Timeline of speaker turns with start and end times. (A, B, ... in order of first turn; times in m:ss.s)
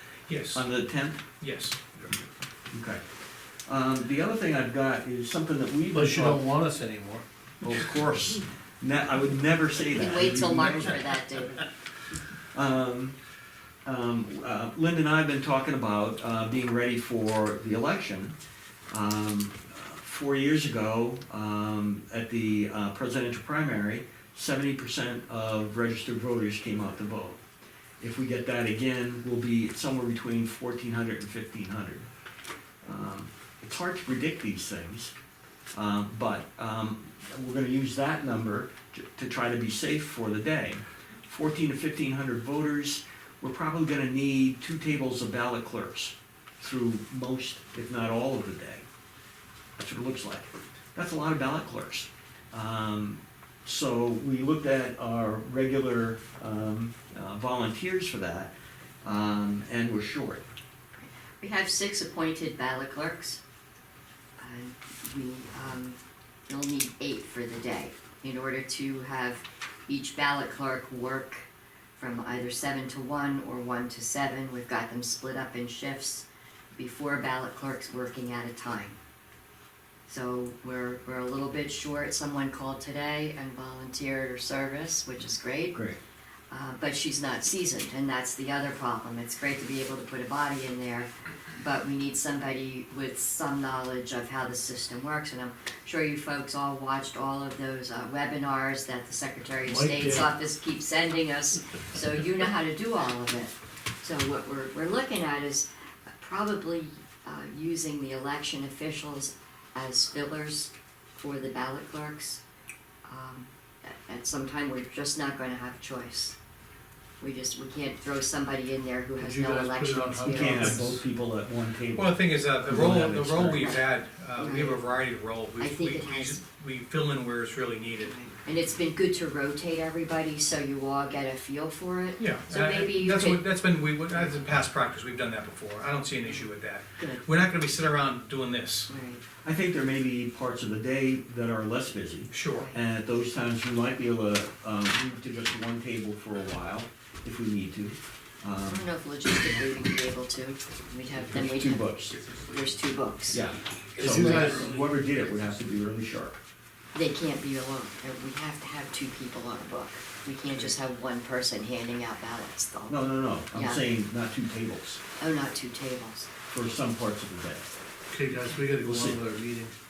0:00.3-0:00.7 A
0:00.5-0:01.3 B
0:01.4-0:01.8 A
0:02.7-0:03.0 B
0:03.7-0:06.5 B
0:05.9-0:07.2 C
0:07.6-0:11.0 B
0:09.9-0:11.7 D
0:12.4-0:13.2 B
0:13.8-0:18.4 B
0:18.9-0:27.4 B
0:28.0-0:32.1 B
0:32.8-0:35.1 B
0:35.7-0:48.9 B
0:49.8-0:58.5 B
0:59.0-1:00.4 B
1:01.0-1:03.4 D
1:04.4-1:11.4 D
1:12.0-1:19.0 D
1:20.1-1:25.8 D
1:25.7-1:26.0 B
1:26.5-1:45.7 D
1:39.7-1:40.3 C
1:46.2-1:52.4 D
1:53.1-1:56.4 D
1:57.2-2:01.0 D
1:59.2-2:01.0 C
2:00.2-2:03.8 B
2:02.0-2:08.2 A
2:04.4-2:04.9 D
2:05.6-2:06.4 D
2:08.0-2:13.4 D
2:12.2-2:18.9 A
2:17.0-2:17.2 D
2:18.9-2:19.2 D
2:19.4-2:28.9 B
2:22.3-2:22.7 A
2:22.5-2:22.8 D
2:28.7-2:33.4 D
2:31.3-2:32.3 B
2:33.3-2:36.4 B
2:34.0-2:34.8 C
2:36.9-2:43.0 D
2:42.9-2:45.0 B
2:43.5-2:43.8 D
2:45.2-2:46.3 D
2:46.5-2:47.7 B
2:48.1-2:49.7 C
2:48.8-2:49.2 B